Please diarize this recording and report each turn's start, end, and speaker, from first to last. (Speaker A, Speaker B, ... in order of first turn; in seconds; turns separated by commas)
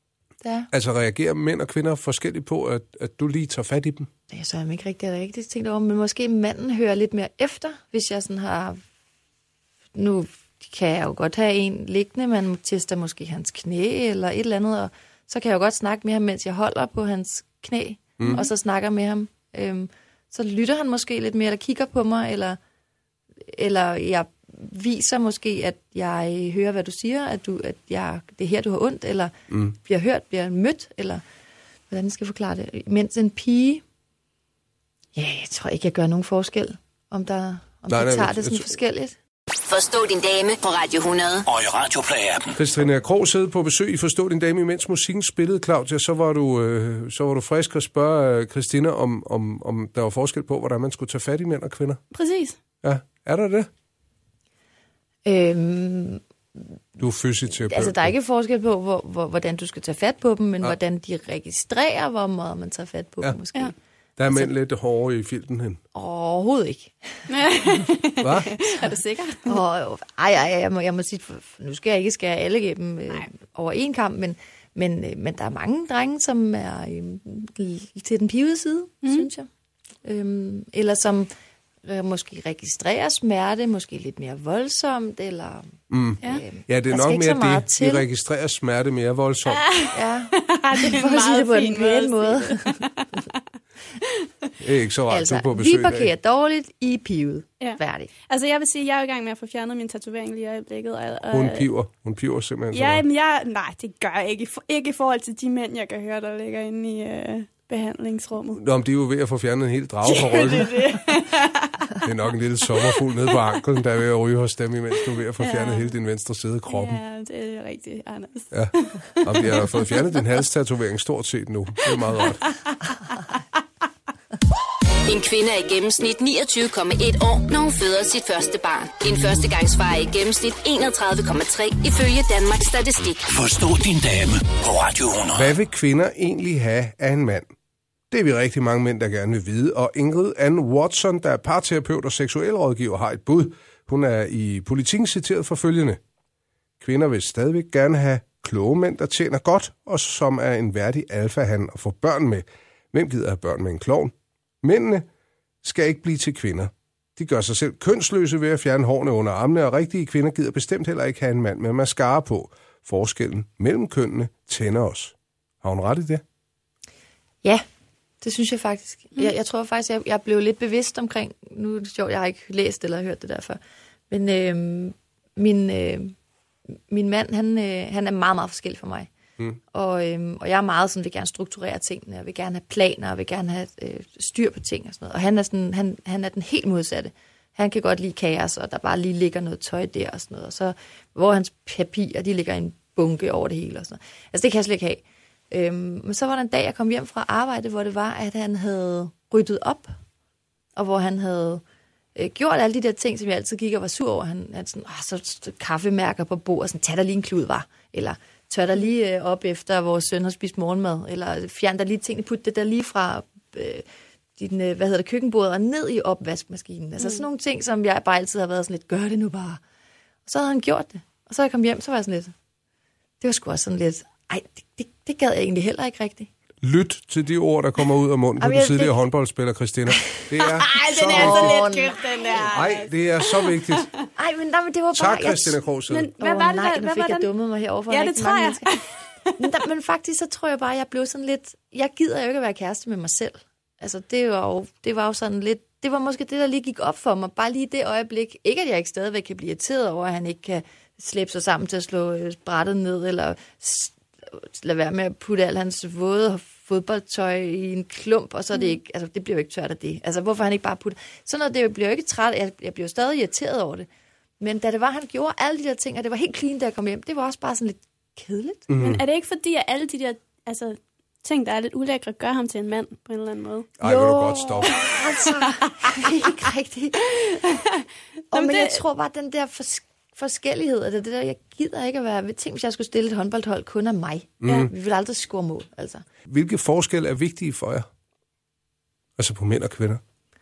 Speaker A: 0.4-0.7, Speaker B: 0.7-4.1, Speaker A: 4.3-8.8, Speaker A: 9.9-22.6, Speaker B: 18.2-18.4, Speaker A: 23.5-31.2, Speaker A: 31.9-33.8, Speaker A: 35.1-39.2, Speaker B: 37.9-38.7, Speaker C: 39.6-41.5, Speaker D: 41.5-42.6, Speaker B: 42.5-52.0, Speaker E: 52.1-52.6, Speaker B: 52.8-53.7, Speaker A: 55.2-56.2, Speaker B: 57.0-58.1, Speaker A: 57.6-63.7, Speaker B: 64.2-65.8, Speaker A: 65.9-66.9, Speaker E: 67.3-69.5, Speaker B: 68.2-68.6, Speaker A: 69.4-79.5, Speaker E: 79.0-79.3, Speaker A: 80.0-81.3, Speaker A: 81.8-88.0, Speaker B: 85.9-89.7, Speaker E: 89.5-93.2, Speaker A: 89.9-92.8, Speaker B: 94.6-96.1, Speaker A: 95.1-98.1, Speaker E: 97.6-101.7, Speaker B: 101.3-103.0, Speaker E: 102.7-108.6, Speaker B: 108.5-110.9, Speaker E: 110.0-112.0, Speaker B: 112.0-117.0, Speaker E: 115.4-115.9, Speaker E: 116.7-120.2, Speaker B: 118.5-122.4, Speaker E: 121.9-123.2, Speaker C: 125.0-133.3, Speaker D: 133.3-135.5, Speaker B: 135.4-137.5, Speaker B: 138.1-146.0, Speaker B: 146.8-155.1, Speaker B: 155.6-166.2, Speaker A: 168.2-173.6, Speaker A: 174.1-176.1, Speaker A: 176.9-179.1, Speaker A: 179.7-199.9, Speaker A: 200.8-201.6, Speaker A: 202.1-213.8, Speaker A: 214.4-219.6, Speaker A: 220.2-222.3, Speaker A: 223.2-226.3, Speaker B: 226.6-231.6, Speaker A: 228.4-229.0, Speaker A: 230.4-232.5, Speaker E: 230.7-233.8, Speaker B: 232.5-233.9, Speaker A: 234.1-235.6, Speaker B: 234.9-236.1, Speaker E: 235.9-237.3, Speaker A: 236.2-238.7, Speaker E: 237.9-239.3, Speaker A: 239.4-263.9, Speaker A: 264.4-268.7, Speaker B: 268.7-269.0, Speaker E: 268.8-273.7, Speaker B: 273.8-274.9, Speaker A: 273.8-277.6, Speaker E: 274.7-276.3, Speaker E: 277.3-278.8, Speaker A: 278.3-286.0, Speaker B: 284.4-284.7, Speaker B: 286.2-287.9, Speaker B: 289.2-290.0